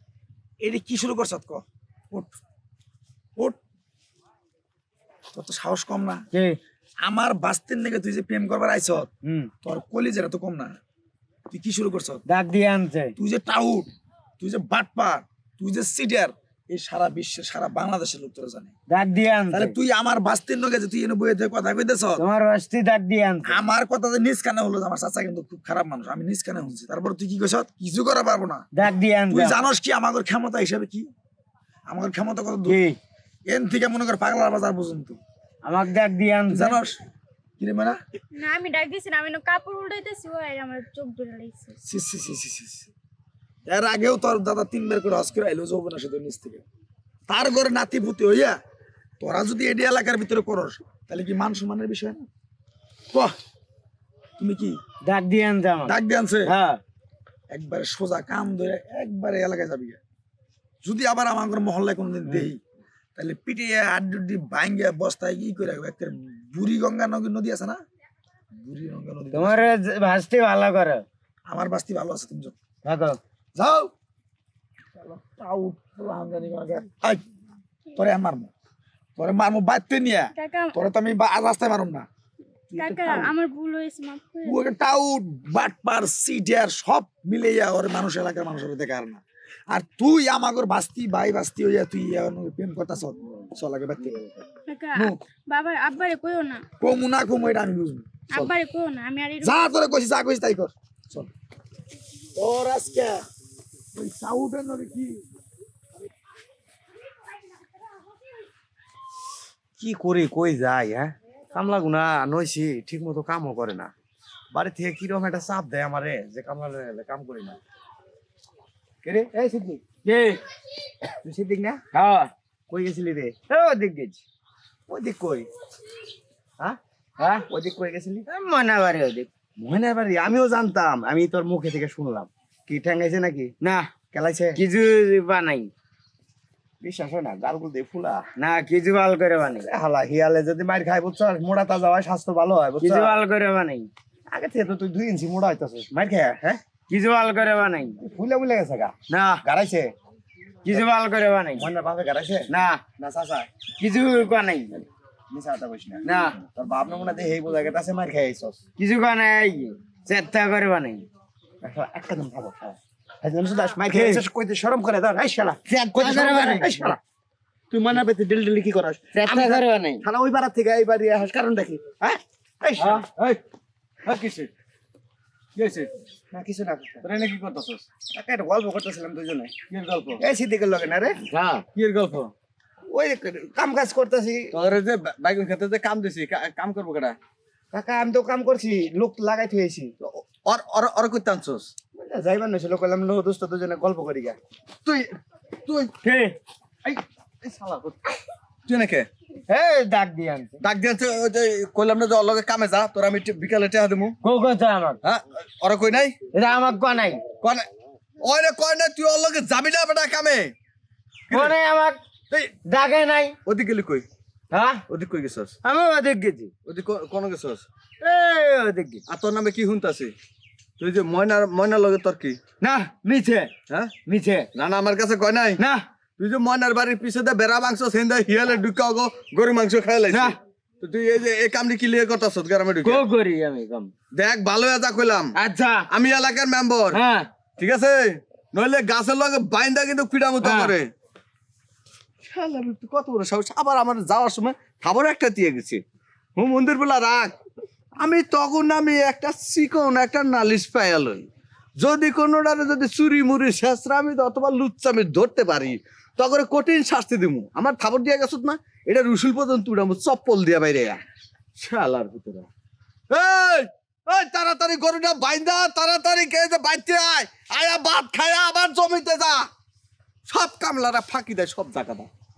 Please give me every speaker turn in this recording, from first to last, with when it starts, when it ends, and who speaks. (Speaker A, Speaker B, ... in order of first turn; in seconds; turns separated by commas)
Speaker A: 0.6-2.4, Speaker A: 5.3-6.2, Speaker B: 6.3-6.6, Speaker A: 7.0-9.1, Speaker B: 9.2-9.5, Speaker A: 9.6-10.7, Speaker A: 11.5-12.2, Speaker B: 12.3-13.2, Speaker A: 13.2-18.7, Speaker B: 18.9-19.7, Speaker A: 19.5-22.2, Speaker B: 22.2-23.7, Speaker A: 23.4-28.7, Speaker B: 28.7-29.6, Speaker A: 29.3-31.1, Speaker A: 31.9-32.8, Speaker B: 32.7-33.0, Speaker A: 33.5-35.2, Speaker B: 35.6-36.8, Speaker A: 36.5-37.0, Speaker A: 37.6-38.0, Speaker C: 38.3-41.8, Speaker A: 41.8-42.9, Speaker A: 43.7-46.6, Speaker A: 47.3-48.5, Speaker A: 49.2-52.3, Speaker A: 54.4-54.8, Speaker B: 55.0-56.8, Speaker A: 55.9-56.5, Speaker A: 57.5-60.0, Speaker A: 60.8-62.6, Speaker A: 63.1-67.8, Speaker A: 68.5-69.7, Speaker B: 69.3-71.0, Speaker A: 71.5-72.5, Speaker B: 72.8-73.2, Speaker A: 73.5-73.9, Speaker A: 75.0-77.2, Speaker A: 77.9-78.5, Speaker A: 79.2-82.0, Speaker C: 80.3-80.8, Speaker A: 82.7-83.3, Speaker C: 82.7-84.6, Speaker A: 84.5-94.2, Speaker C: 94.7-96.6, Speaker A: 96.8-98.5, Speaker C: 98.3-99.7, Speaker A: 99.4-101.3, Speaker A: 102.3-103.2, Speaker A: 103.9-105.2, Speaker D: 109.9-113.9, Speaker A: 112.7-113.7, Speaker D: 114.5-117.5, Speaker D: 119.0-119.8, Speaker B: 120.0-120.4, Speaker D: 121.2-121.8, Speaker B: 121.9-122.3, Speaker D: 122.7-123.3, Speaker B: 123.5-124.2, Speaker D: 124.9-125.5, Speaker B: 127.2-127.5, Speaker D: 127.5-128.2, Speaker B: 128.3-129.3, Speaker D: 129.7-130.9, Speaker B: 131.3-132.3, Speaker D: 132.7-133.5, Speaker B: 133.6-133.9, Speaker D: 134.1-134.6, Speaker B: 134.5-135.7, Speaker D: 136.8-138.2, Speaker B: 138.4-139.7, Speaker D: 139.7-142.9, Speaker B: 142.8-143.9, Speaker D: 144.3-145.9, Speaker B: 146.0-148.0, Speaker D: 148.1-148.9, Speaker B: 149.1-149.4, Speaker D: 149.5-149.9, Speaker B: 150.6-151.7, Speaker D: 151.6-153.5, Speaker B: 152.5-152.8, Speaker B: 153.8-154.8, Speaker D: 155.3-158.6, Speaker B: 156.0-156.4, Speaker B: 158.8-161.1, Speaker D: 161.6-162.8, Speaker D: 163.3-165.6, Speaker B: 163.8-164.2, Speaker A: 164.0-164.3, Speaker B: 165.9-166.9, Speaker A: 166.0-166.9, Speaker D: 166.2-167.0, Speaker D: 167.7-169.5, Speaker B: 169.1-170.0, Speaker D: 170.0-172.9, Speaker E: 172.8-173.4, Speaker E: 174.0-174.5, Speaker E: 175.5-175.9, Speaker D: 176.3-177.0, Speaker E: 177.0-177.8, Speaker D: 178.1-179.5, Speaker E: 179.7-180.2, Speaker D: 180.2-181.2, Speaker B: 181.2-181.6, Speaker E: 181.7-182.3, Speaker D: 182.9-184.5, Speaker E: 184.5-187.2, Speaker D: 188.5-189.8, Speaker E: 190.0-191.7, Speaker D: 192.0-194.4, Speaker A: 193.6-194.0, Speaker E: 194.8-195.9, Speaker B: 196.0-196.4, Speaker E: 196.8-198.0, Speaker E: 198.7-199.1, Speaker B: 199.5-200.6, Speaker E: 200.6-204.2, Speaker B: 204.2-205.0, Speaker E: 205.0-206.2, Speaker B: 206.3-207.2, Speaker E: 207.4-207.7, Speaker E: 208.2-210.5, Speaker E: 211.3-211.5, Speaker B: 211.3-212.0, Speaker B: 212.6-213.3, Speaker E: 213.4-214.1, Speaker B: 214.5-214.8, Speaker E: 214.9-215.5, Speaker B: 215.6-216.5, Speaker E: 216.6-217.7, Speaker B: 218.0-219.0, Speaker E: 219.1-220.1, Speaker E: 220.8-222.4, Speaker B: 222.6-223.5, Speaker B: 224.1-224.5, Speaker E: 224.5-225.6, Speaker B: 225.6-225.8, Speaker E: 226.2-233.0, Speaker B: 230.1-230.3, Speaker B: 232.8-233.9, Speaker E: 234.1-235.3, Speaker B: 235.3-235.9, Speaker E: 235.9-237.0, Speaker B: 236.9-237.3, Speaker E: 237.6-240.9, Speaker B: 240.4-240.7, Speaker E: 242.2-245.8, Speaker E: 246.3-247.3, Speaker E: 248.0-251.3, Speaker E: 251.8-261.0, Speaker E: 261.6-262.5, Speaker E: 263.1-269.5, Speaker E: 270.3-272.1